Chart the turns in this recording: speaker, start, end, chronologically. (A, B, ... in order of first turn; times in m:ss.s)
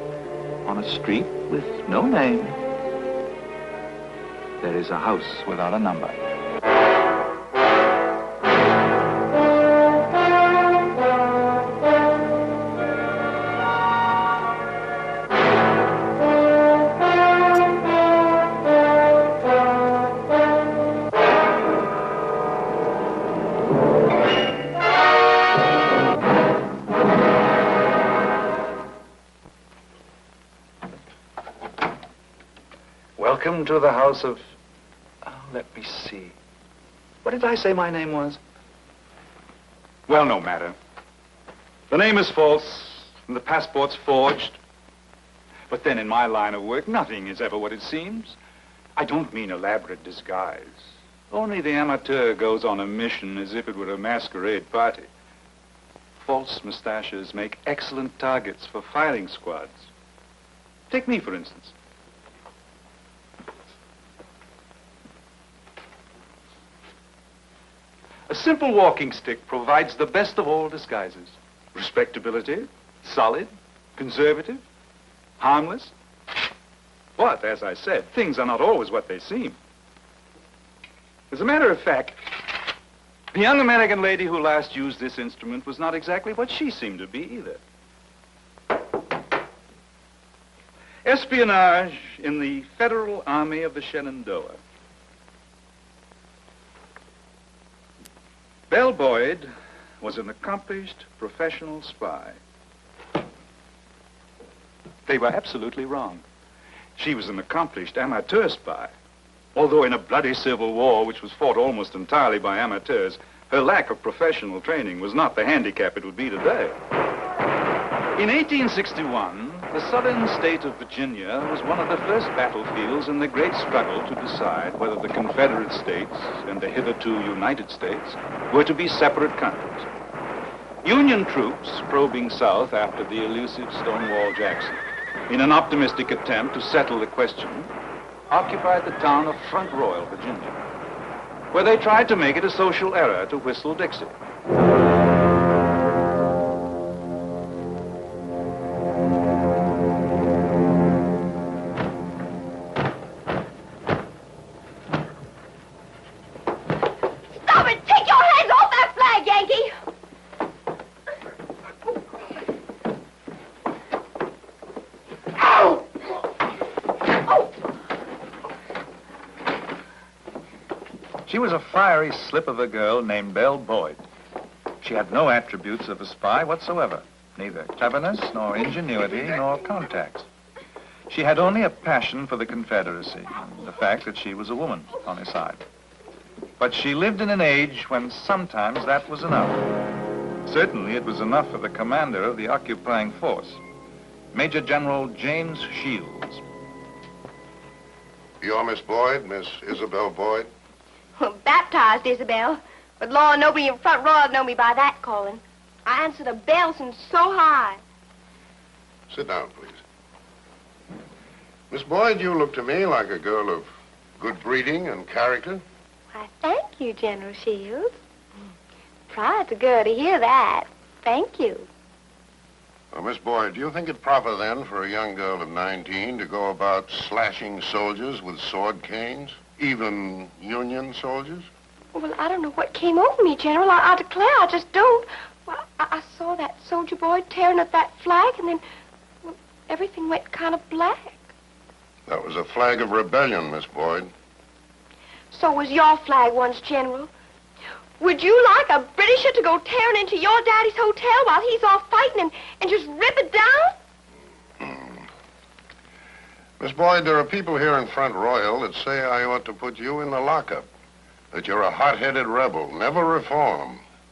0:00.6-0:02.6 A
0:04.6-0:06.2 A
0:33.2-0:34.4 A
0:35.2-0:36.4 A
0:37.2-0:38.4 A
0:40.1-0:40.8 A
0:41.9-0:44.6 A
0:45.7-0:48.4 A
0:49.0-0:55.1 A
0:56.2-0:59.9 A
1:00.9-1:01.7 A
1:08.3-1:14.6 A
1:15.4-1:15.9 A
1:17.2-1:19.6 A
1:21.3-1:22.6 A
1:23.3-1:27.6 A
1:31.0-1:34.6 A
1:38.7-1:39.5 A
1:40.0-1:42.4 A
1:45.1-1:46.2 A
1:47.0-1:48.9 A
1:49.6-1:56.8 A
1:58.1-2:09.9 A
2:10.8-2:17.7 A
2:18.3-2:20.6 A
2:21.5-2:24.2 A
2:37.4-2:39.7 B
2:51.3-2:54.0 A
2:54.8-3:00.3 A
3:01.1-3:05.6 A
3:06.6-3:09.7 A
3:10.4-3:13.6 A
3:14.3-3:16.4 A
3:18.4-3:20.5 C
3:21.2-3:27.8 B
3:29.1-3:29.8 C
3:31.7-3:35.6 C
3:36.1-3:38.0 B
3:39.1-3:41.7 B
3:42.9-3:51.5 C
3:51.9-3:58.6 B
3:59.2-4:01.3 B
4:02.1-4:04.1 C
4:05.3-4:07.1 B
4:08.0-4:13.8 B
4:14.6-4:15.1 C
4:16.6-4:20.7 C
4:21.3-4:23.8 C